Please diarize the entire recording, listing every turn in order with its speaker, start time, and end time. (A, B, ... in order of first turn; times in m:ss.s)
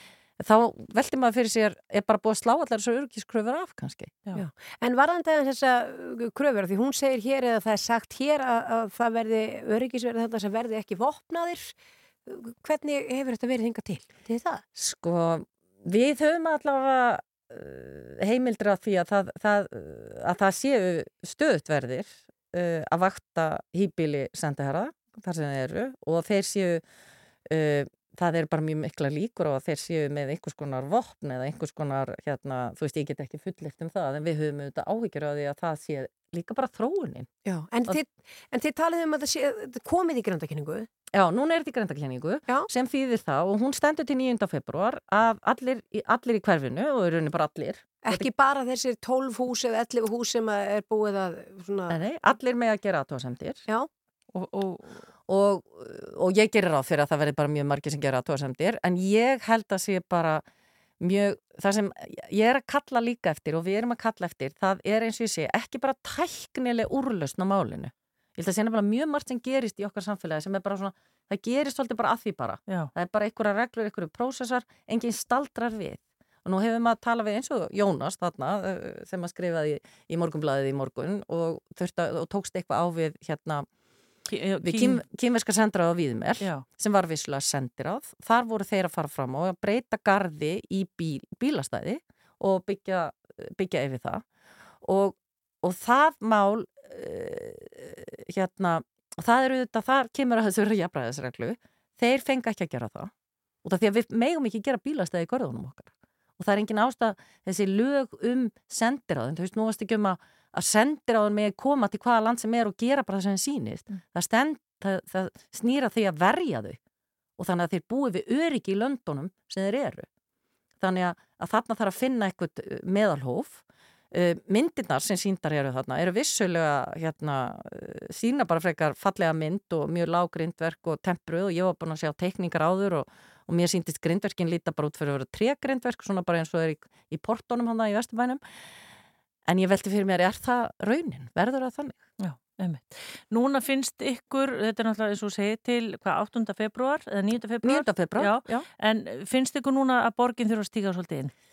0:00.4-0:04.2 A
0:04.4-0:14.6 B
0:14.8-0:26.8 A
0:27.5-0:37.3 A
0:37.4-0:40.9 B
0:41.1-0:48.3 A
0:48.0-0:52.0 B
0:51.9-0:53.6 A
0:54.3-0:55.0 C
0:55.3-1:00.4 A
1:01.0-1:23.7 A
1:24.3-1:25.0 C
1:24.6-1:34.2 A
1:34.8-1:43.1 A
1:43.6-1:56.8 A
1:57.4-2:00.1 A
2:00.8-2:03.6 A
2:04.1-2:18.4 A
2:19.4-2:22.0 A
2:22.2-2:31.3 C
2:27.6-2:28.7 A